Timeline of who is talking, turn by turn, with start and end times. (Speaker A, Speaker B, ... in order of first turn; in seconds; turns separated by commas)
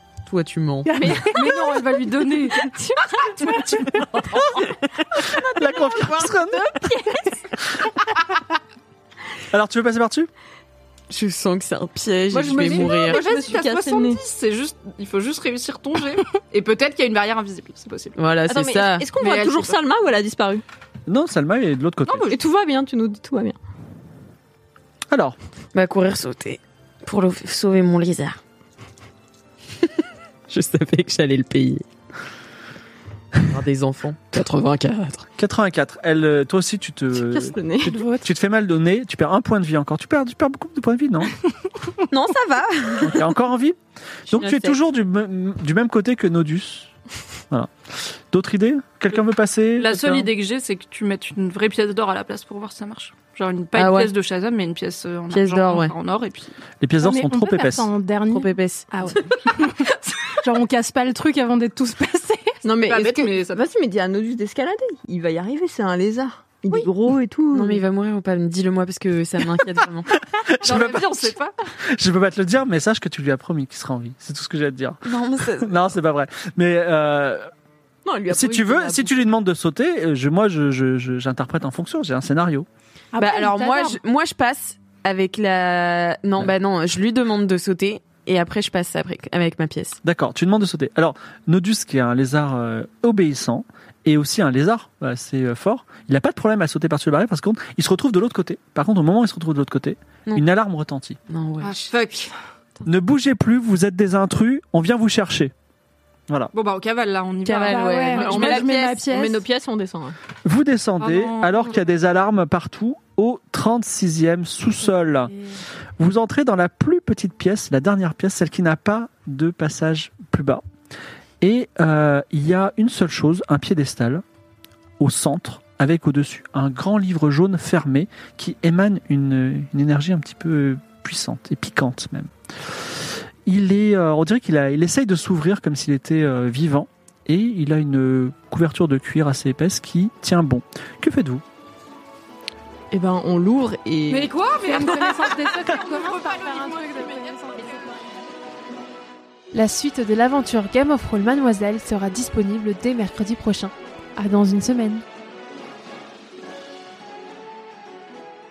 Speaker A: 0.3-0.9, Speaker B: 0.9-2.0, Speaker C: 0.9-1.8, Speaker D: 1.3-2.7, Speaker C: 2.6-3.6, Speaker E: 3.7-4.4, Speaker C: 5.2-7.4, Speaker E: 5.4-7.0, Speaker E: 9.5-10.3, Speaker A: 11.1-13.2, Speaker C: 12.3-14.2, Speaker D: 12.6-18.2, Speaker A: 18.2-19.1, Speaker C: 18.5-20.6, Speaker D: 19.2-19.8, Speaker E: 21.1-22.4, Speaker D: 22.1-22.4, Speaker C: 22.3-23.6, Speaker E: 25.1-25.4, Speaker A: 25.7-28.4, Speaker A: 30.5-31.9, Speaker A: 33.5-35.3, Speaker E: 35.4-41.3, Speaker C: 37.1-38.0, Speaker B: 37.9-38.2, Speaker A: 42.1-43.2, Speaker E: 43.0-46.9, Speaker A: 44.3-44.8, Speaker E: 47.5-50.3, Speaker D: 49.8-56.6, Speaker A: 53.8-54.1, Speaker A: 55.3-56.0, Speaker E: 56.8-57.9, Speaker B: 57.0-59.9, Speaker A: 58.3-58.9, Speaker D: 59.9-60.3, Speaker B: 60.4-62.6, Speaker C: 62.6-67.8, Speaker D: 62.9-63.6, Speaker A: 67.5-70.1, Speaker E: 70.1-71.3, Speaker D: 70.6-71.5, Speaker E: 71.9-77.5, Speaker A: 75.0-75.8, Speaker C: 78.0-79.1, Speaker E: 78.3-82.7, Speaker B: 83.1-84.0, Speaker A: 83.2-90.0, Speaker E: 90.0-101.2, Speaker A: 101.3-101.9, Speaker D: 101.6-102.3, Speaker E: 102.9-105.5, Speaker E: 106.3-106.5, Speaker D: 106.5-108.5, Speaker A: 107.5-109.0, Speaker B: 107.7-109.5, Speaker C: 108.1-110.2, Speaker E: 110.5-115.3, Speaker D: 111.0-111.8, Speaker E: 116.0-120.6, Speaker E: 121.4-124.2, Speaker E: 125.0-141.4, Speaker C: 142.9-144.3, Speaker D: 144.1-147.9, Speaker B: 144.7-148.1, Speaker F: 149.5-155.0